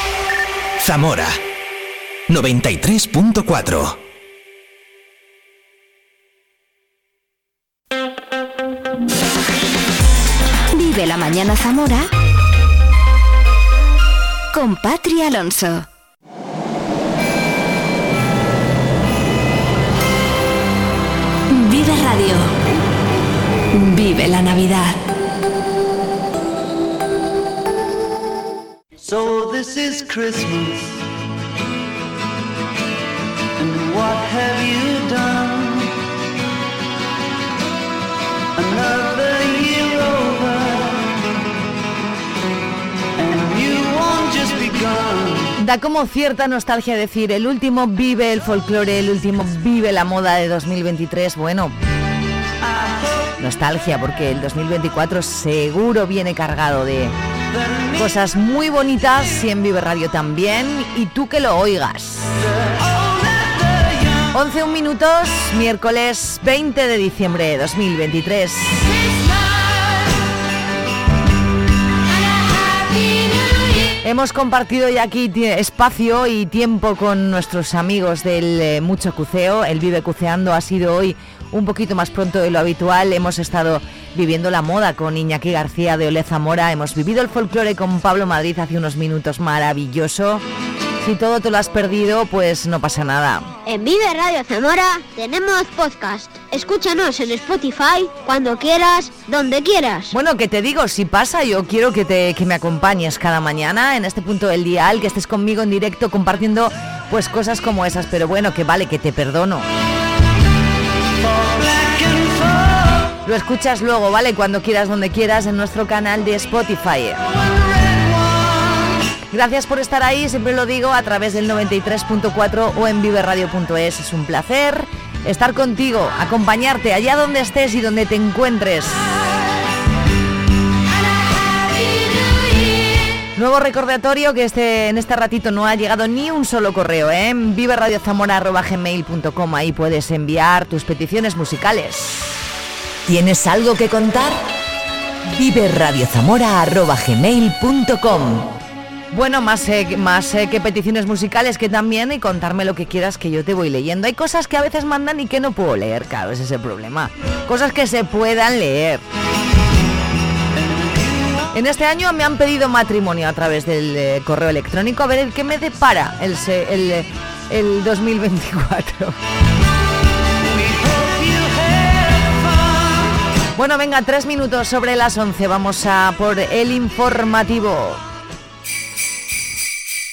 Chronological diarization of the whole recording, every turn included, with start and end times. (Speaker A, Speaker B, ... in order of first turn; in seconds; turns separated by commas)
Speaker A: 0.8-1.4, Speaker A: 2.3-4.0, Speaker B: 10.7-12.0, Speaker B: 14.5-15.8, Speaker B: 21.6-22.5, Speaker C: 29.0-30.9, Speaker C: 33.6-35.9, Speaker C: 38.6-41.0, Speaker C: 43.2-45.5, Speaker D: 45.6-51.7, Speaker C: 52.6-53.3, Speaker D: 53.4-57.1, Speaker C: 57.5-58.0, Speaker D: 57.9-62.4, Speaker C: 62.8-64.2, Speaker D: 64.3-68.8, Speaker D: 74.0-90.4, Speaker D: 91.0-93.5, Speaker E: 93.7-100.1, Speaker D: 100.1-109.7, Speaker C: 111.3-112.8, Speaker D: 113.2-117.2, Speaker D: 119.3-129.1, Speaker D: 133.3-142.4, Speaker D: 143.1-144.4, Speaker D: 145.3-148.4, Speaker D: 149.1-159.0, Speaker C: 160.6-161.4, Speaker D: 161.5-169.2, Speaker C: 170.4-173.1, Speaker D: 173.6-178.0